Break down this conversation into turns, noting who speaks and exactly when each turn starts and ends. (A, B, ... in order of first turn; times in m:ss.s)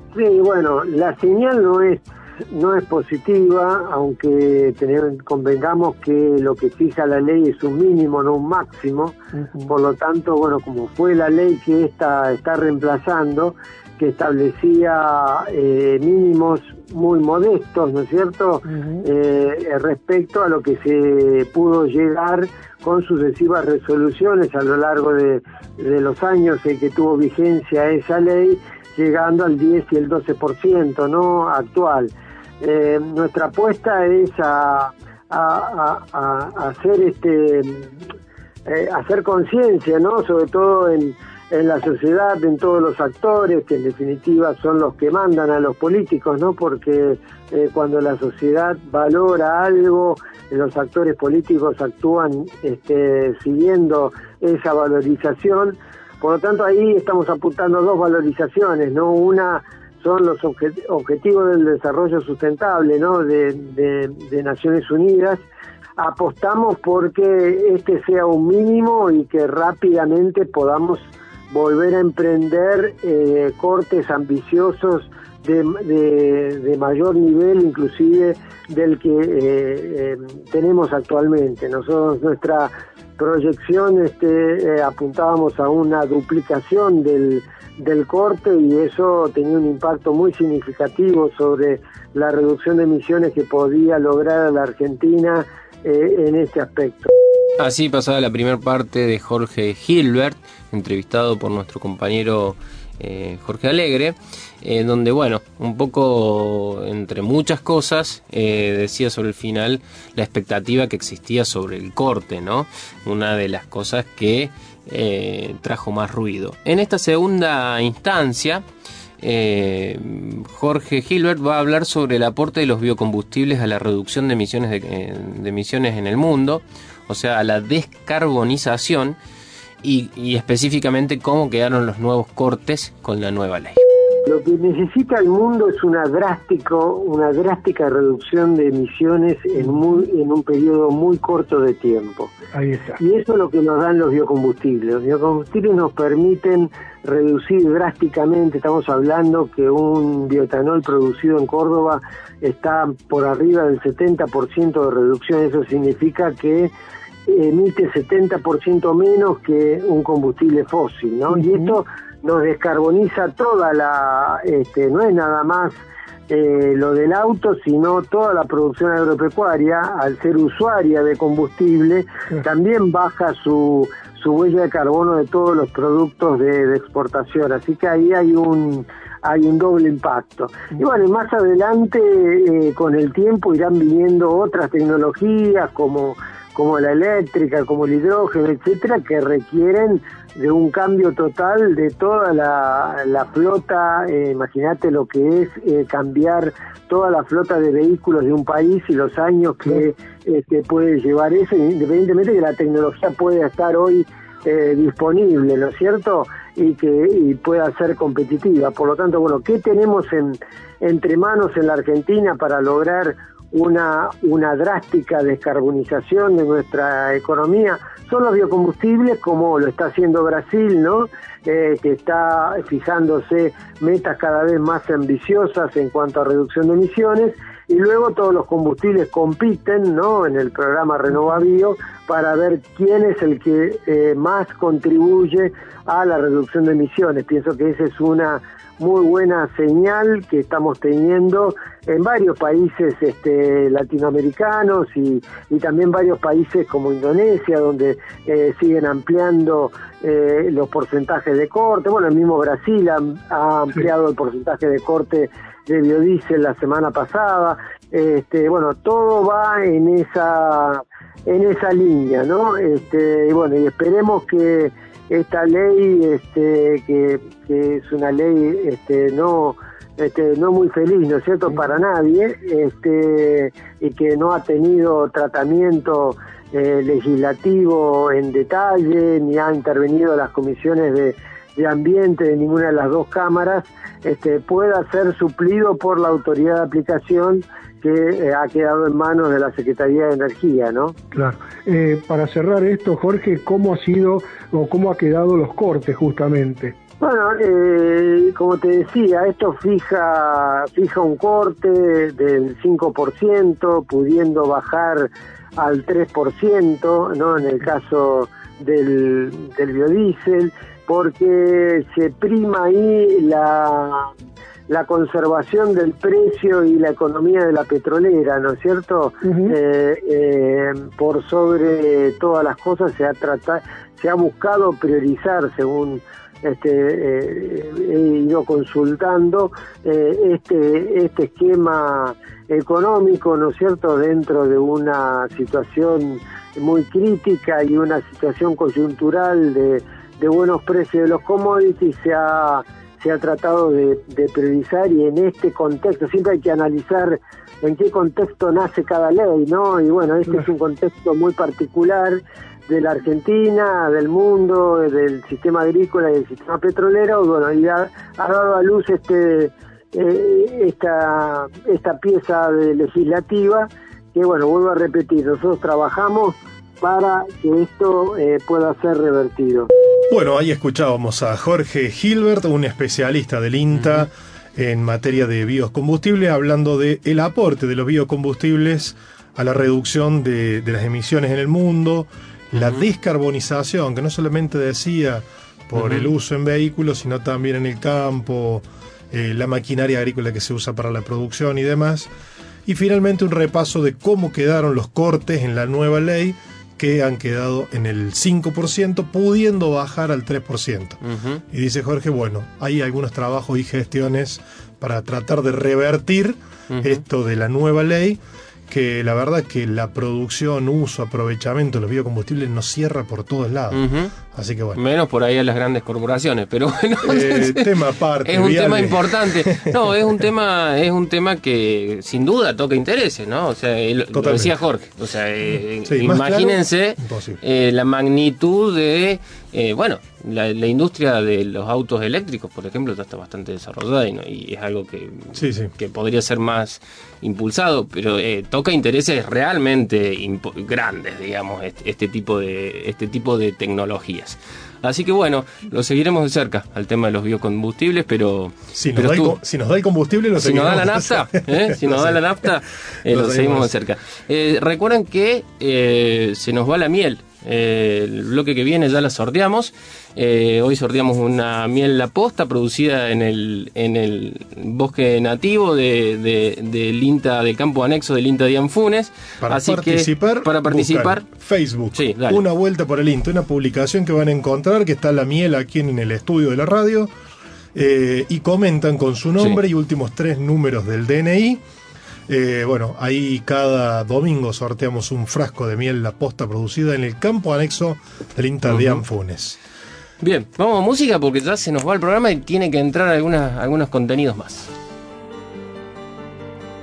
0:00.1-0:09.2 A
0:09.4-0:09.7 B
0:09.7-0:38.0 A
0:18.7-0:19.0 B
0:38.7-1:05.4 A
1:06.0-1:37.1 A
1:37.6-1:58.6 C
1:59.2-2:09.2 C
2:09.8-2:13.8 C
2:14.2-2:22.3 A
2:22.6-2:23.0 B
2:23.0-2:36.7 A
2:37.3-2:45.8 A
2:46.3-4:51.0 A
4:51.1-4:56.8 B
4:57.0-5:14.1 A
5:14.7-6:09.7 A
5:19.2-5:19.5 B
6:10.1-6:32.1 D
6:25.8-6:26.1 C
6:32.7-6:54.8 D
6:41.0-6:41.4 C
6:46.7-6:47.0 C
6:53.7-6:54.1 C
6:54.8-6:57.7 C
6:57.0-6:59.9 D
6:58.3-7:29.4 C
7:04.1-7:04.5 D
7:05.9-7:07.4 D
7:15.4-7:15.7 D
7:28.8-7:32.4 D
7:30.4-7:51.3 C
7:33.1-7:33.7 D
7:49.4-7:57.1 D
7:51.9-7:52.4 C
7:57.8-8:01.6 D
8:02.3-8:09.6 D
8:08.7-8:09.0 C
8:10.2-8:14.7 C